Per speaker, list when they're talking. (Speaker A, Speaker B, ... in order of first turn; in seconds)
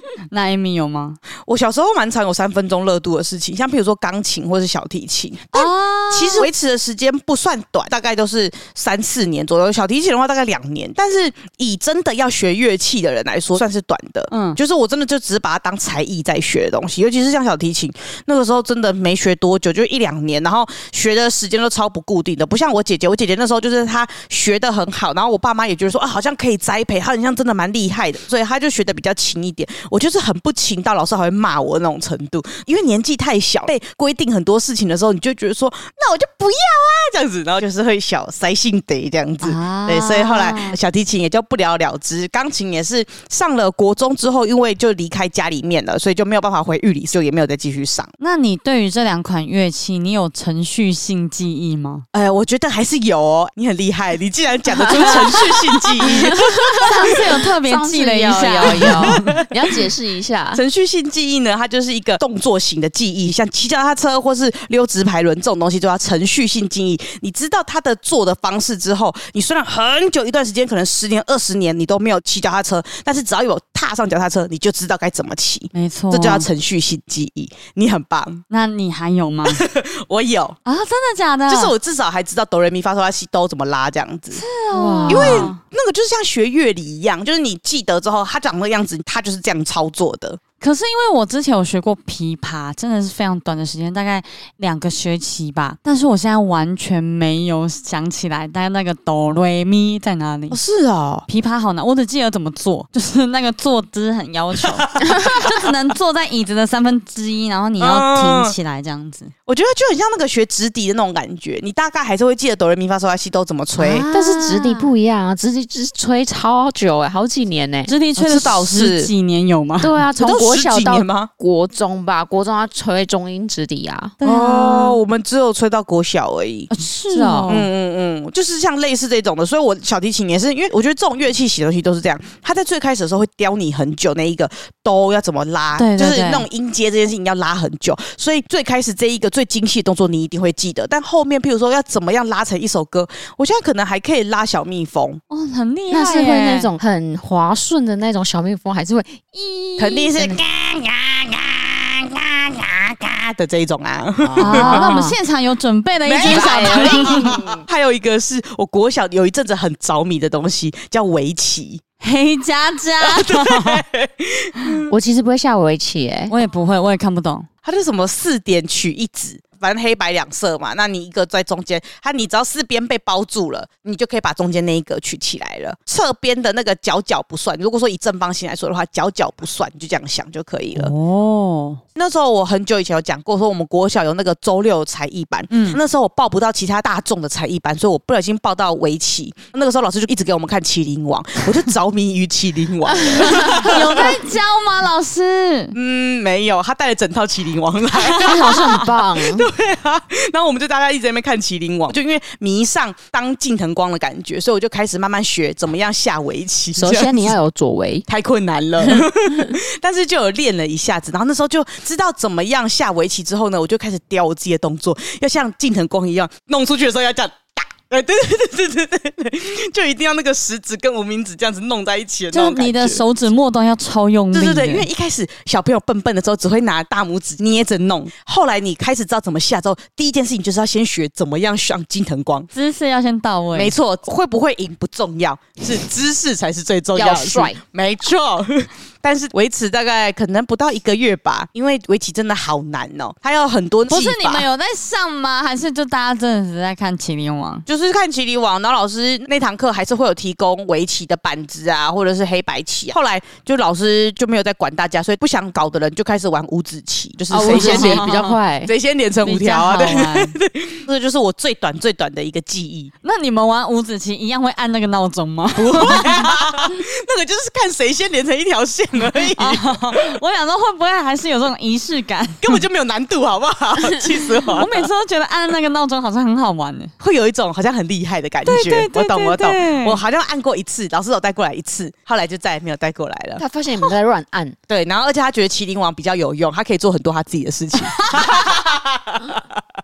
Speaker A: 0.3-1.2, 5.5-6.5, 14.3-14.6, 39.4-40.8, 48.2-52.0, 55.0-55.4, 56.0-59.4, 75.7-76.5, 78.5-79.6, 80.6-81.7, 84.3-85.6, 90.6-100.6, 101.3-109.3, 113.8-114.9, 117.9-120.0, 124.2-125.0, 126.7-127.7, 135.8-136.4, 145.3-146.7, 154.4-157.3, 162.0-163.8, 166.3-167.5, 180.8-181.8, 185.5-185.8, 193.2-195.8, 197.9-198.6, 222.3-224.9, 232.5-233.7, 243.9-247.6, 257.4-258.4, 259.2-260.4, 263.0-266.7, 269.4-272.6, 274.5-276.9, 278.4-280.0
Speaker B: 1.4-48.1, 52.1-56.9, 58.7-59.4, 60.5-78.4, 79.5-80.6, 81.5-84.4, 85.1-90.4, 100.5-101.2, 104.6-105.7, 107.8-108.5, 109.5-114.0, 118.2-119.1, 120.2-121.3, 124.2-126.7, 127.5-145.2, 149.8-154.9, 156.1-161.8, 163.0-164.9, 167.6-180.9, 181.9-194.0, 195.7-207.3, 208.1-223.0, 224.3-232.5, 233.5-244.4, 247.7-258.1, 258.6-262.9, 265.5-270.1, 272.4-274.9, 277.0-283.9, 284.7-289.6
Speaker C: 54.7-55.5, 56.0-60.6, 84.7-85.5, 114.1-117.9, 119.8-124.2, 127.1-127.5, 145.9-150.4, 154.2-155.2, 156.2-157.6, 164.9-166.3, 192.9-194.1, 198.2-199.5, 206.8-208.1, 208.8-209.6, 236.9-237.6, 257.3-258.7, 283.4-284.6